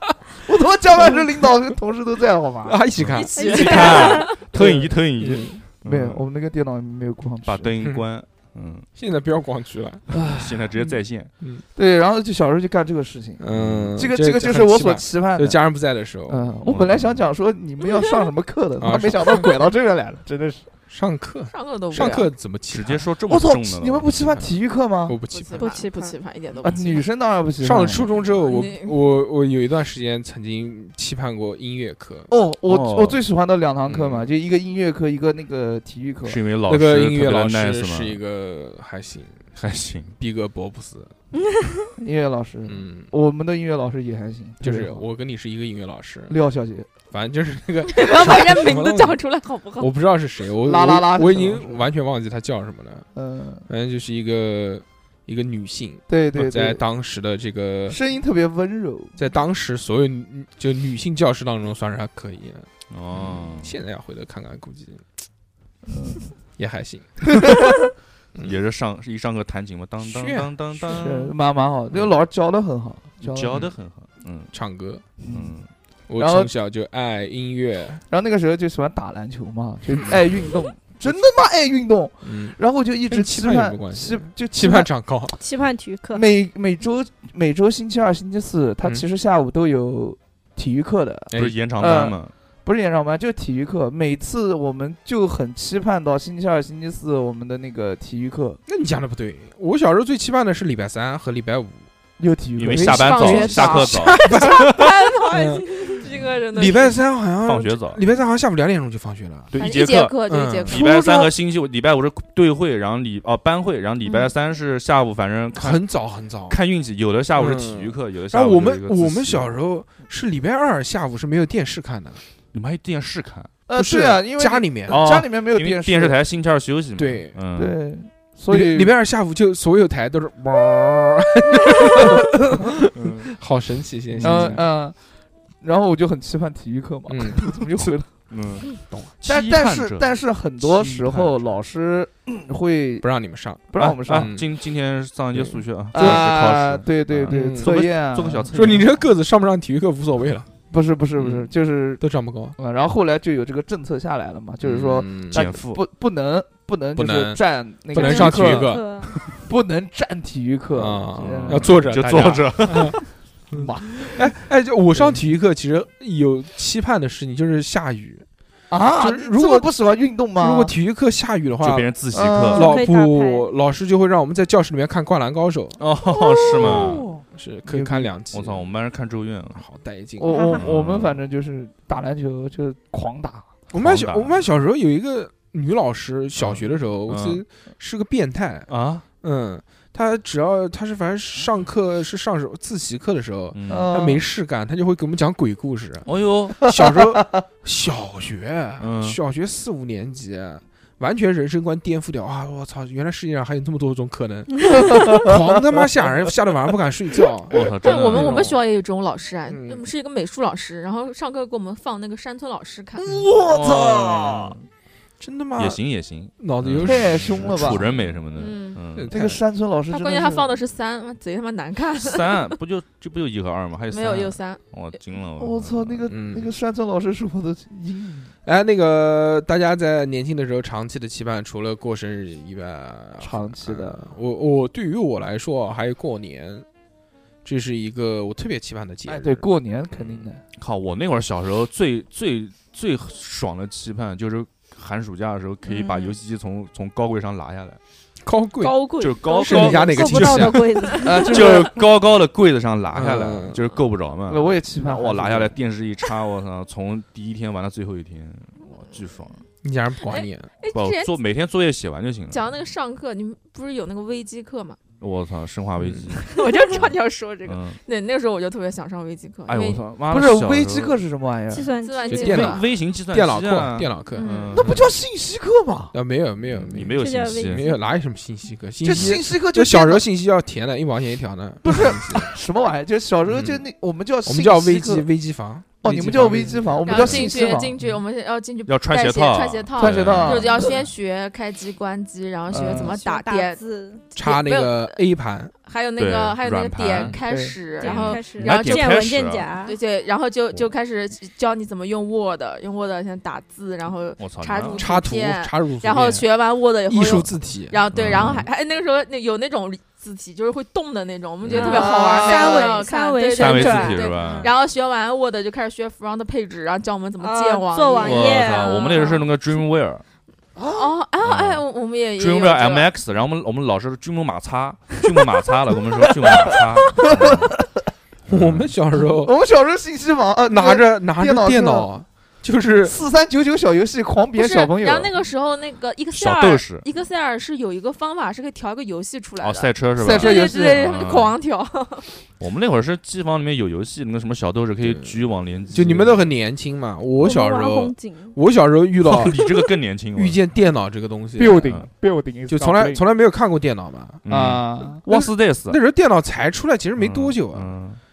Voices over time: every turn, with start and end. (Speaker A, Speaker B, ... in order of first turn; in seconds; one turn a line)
Speaker A: 0.5-2.8
Speaker B: 2.6-5.6
Speaker C: 3.0-6.2
Speaker D: 3.1-4.3
Speaker E: 3.4-4.3
Speaker A: 5.8-7.7
Speaker C: 7.5-8.9
Speaker B: 9.0-10.2
Speaker A: 10.1-10.9
Speaker C: 10.3-11.3
Speaker A: 11.8-15.7
Speaker B: 13.4-16.5
Speaker C: 13.5-14.0
Speaker A: 16.3-20.7
Speaker C: 16.6-17.2
Speaker B: 18.8-19.5
Speaker B: 20.9-23.1
Speaker D: 21.5-22.4
Speaker C: 22.7-24.1
Speaker A: 23.3-25.2
Speaker B: 25.1-25.8
Speaker D: 25.3-27.0
Speaker E: 25.6-26.2
Speaker A: 26.6-28.1
Speaker B: 27.6-32.3
Speaker D: 28.2-28.9
Speaker A: 32.3-36.4
Speaker C: 32.7-33.2
Speaker B: 33.9-34.3
Speaker C: 36.2-38.2
Speaker B: 36.7-39.5
Speaker C: 39.6-40.2
Speaker B: 40.2-41.1
Speaker A: 42.0-45.0
Speaker B: 42.7-43.1
Speaker B: 44.6-46.4
Speaker A: 46.3-46.9
Speaker B: 47.1-49.2
Speaker D: 47.9-49.9
Speaker B: 49.8-53.1
Speaker A: 50.6-51.8
Speaker A: 53.1-53.7
Speaker B: 53.7-58.0
Speaker A: 56.1-56.8
Speaker A: 57.9-59.1
Speaker B: 59.2-65.0
Speaker C: 62.9-63.7
Speaker A: 65.9-66.3
Speaker B: 66.6-67.5
Speaker A: 67.4-67.8
Speaker C: 68.4-71.3
Speaker B: 70.0-71.0
Speaker A: 70.9-73.7
Speaker C: 73.2-74.5
Speaker B: 74.5-75.1
Speaker A: 75.2-75.6
Speaker C: 75.3-75.7
Speaker B: 76.1-78.0
Speaker A: 76.2-76.5
Speaker A: 78.1-84.9
Speaker B: 82.2-85.4
Speaker E: 85.3-86.3
Speaker A: 86.1-98.6
Speaker B: 91.3-91.6
Speaker C: 91.3-92.3
Speaker B: 98.7-101.9
Speaker A: 102.2-103.3
Speaker C: 102.6-104.9
Speaker B: 102.7-109.5
Speaker D: 102.9-107.0
Speaker E: 105.3-106.1
Speaker C: 107.4-108.0
Speaker C: 109.5-119.6
Speaker D: 109.6-110.8
Speaker B: 110.3-110.8
Speaker A: 110.8-111.3
Speaker D: 114.0-114.3
Speaker B: 115.5-116.6
Speaker B: 117.3-122.2
Speaker C: 122.5-123.5
Speaker A: 123.7-126.2
Speaker B: 123.8-125.1
Speaker C: 124.9-127.8
Speaker B: 127.0-127.4
Speaker A: 127.5-128.9
Speaker B: 128.5-134.6
Speaker C: 132.9-133.4
Speaker C: 134.2-134.6
Speaker A: 134.2-135.0
Speaker A: 135.6-138.1
Speaker B: 137.1-137.6
Speaker C: 138.3-140.1
Speaker A: 139.2-143.1
Speaker C: 140.6-141.5
Speaker B: 143.0-144.5
Speaker A: 143.7-144.3
Speaker C: 144.1-149.0
Speaker B: 145.3-146.2
Speaker A: 145.9-148.5
Speaker B: 147.3-147.8
Speaker B: 148.5-150.5
Speaker A: 150.7-152.0
Speaker B: 151.2-152.6
Speaker A: 152.6-163.0
Speaker B: 154.6-155.5
Speaker C: 155.3-155.8
Speaker B: 157.0-159.1
Speaker E: 158.0-159.2
Speaker B: 160.8-163.0
Speaker C: 161.2-163.0
Speaker A: 163.5-164.2
Speaker B: 163.5-168.3
Speaker A: 168.7-170.7
Speaker B: 169.0-169.7
Speaker B: 170.4-171.9
Speaker C: 171.6-172.8
Speaker A: 172.1-172.8
Speaker B: 172.5-175.8
Speaker E: 172.5-173.5
Speaker C: 175.8-177.1
Speaker A: 176.5-178.1
Speaker B: 176.6-178.6
Speaker C: 178.3-179.7
Speaker B: 179.5-180.5
Speaker A: 180.2-183.5
Speaker E: 180.3-180.6
Speaker C: 180.6-181.2
Speaker B: 183.7-188.7
Speaker C: 183.8-184.5
Speaker C: 186.4-187.4
Speaker C: 188.7-189.1
Speaker B: 189.2-208.6
Speaker C: 193.5-193.9
Speaker A: 193.7-194.2
Speaker C: 196.1-196.7
Speaker C: 198.8-199.2
Speaker A: 204.8-205.3
Speaker C: 207.5-208.5
Speaker D: 207.8-213.2
Speaker B: 209.5-209.9
Speaker A: 213.0-214.6
Speaker C: 213.5-214.6
Speaker B: 215.2-215.8
Speaker C: 215.6-219.1
Speaker B: 216.4-217.7
Speaker A: 216.8-217.9
Speaker D: 218.4-218.8
Speaker B: 218.9-219.4
Speaker A: 219.1-220.5
Speaker D: 219.9-222.4
Speaker C: 222.0-226.1
Speaker D: 223.9-224.6
Speaker A: 225.4-228.3
Speaker B: 226.1-226.5
Speaker B: 228.4-236.7
Speaker A: 233.2-234.1
Speaker B: 237.4-239.4
Speaker A: 239.1-240.4
Speaker C: 240.6-247.8
Speaker D: 245.7-246.2
Speaker B: 248.2-251.0
Speaker E: 248.6-251.5
Speaker D: 248.9-249.8
Speaker C: 249.0-250.6
Speaker D: 250.8-251.4
Speaker A: 251.0-251.8
Speaker C: 251.2-259.4
Speaker B: 252.9-253.6
Speaker A: 254.3-255.6
Speaker B: 259.6-260.5
Speaker D: 260.0-261.1
Speaker C: 260.7-262.5
Speaker D: 262.3-264.8
Speaker C: 265.0-267.8
Speaker B: 265.8-266.1
Speaker D: 266.2-269.8
Speaker C: 269.5-271.0
Speaker A: 269.5-271.7
Speaker E: 271.5-272.6
Speaker D: 271.7-272.6
Speaker B: 272.1-274.3
Speaker C: 272.2-274.9
Speaker D: 274.1-274.7
Speaker A: 274.5-275.9
Speaker B: 275.9-282.3
Speaker C: 276.5-277.7
Speaker E: 277.0-277.9
Speaker A: 278.8-280.1
Speaker A: 281.6-285.1
Speaker B: 283.3-283.6
Speaker B: 284.2-286.8
Speaker A: 285.8-287.9
Speaker D: 286.8-295.0
Speaker C: 288.7-290.7
Speaker A: 289.8-290.8
Speaker A: 292.5-292.9
Speaker E: 292.6-294.0
Speaker B: 294.1-295.5
Speaker D: 295.6-319.3
Speaker C: 296.0-297.2
Speaker A: 297.2-297.6
Speaker E: 297.8-299.8
Speaker C: 297.8-299.5
Speaker C: 304.2-304.9
Speaker B: 304.7-306.3
Speaker B: 306.9-307.8
Speaker C: 307.9-308.5
Speaker C: 311.4-312.6
Speaker E: 311.5-314.5
Speaker C: 313.3-314.5
Speaker E: 317.2-319.1
Speaker C: 318.0-320.0
Speaker A: 320.6-320.9
Speaker D: 320.7-322.9
Speaker C: 321.2-321.6
Speaker C: 322.2-327.5
Speaker A: 326.9-327.8
Speaker C: 328.3-328.7
Speaker B: 328.3-329.3
Speaker A: 329.2-331.9
Speaker B: 330.5-333.0
Speaker A: 332.8-335.1
Speaker D: 334.4-342.1
Speaker C: 336.1-336.9
Speaker C: 339.4-341.3
Speaker A: 340.0-340.9
Speaker C: 342.4-346.3
Speaker B: 344.8-345.2
Speaker B: 345.7-349.4
Speaker E: 347.2-348.4
Speaker C: 349.0-350.4
Speaker B: 350.1-351.7
Speaker A: 351.4-353.0
Speaker B: 352.5-354.2
Speaker C: 354.2-355.8
Speaker A: 354.3-355.0
Speaker B: 355.1-357.7
Speaker C: 357.0-358.0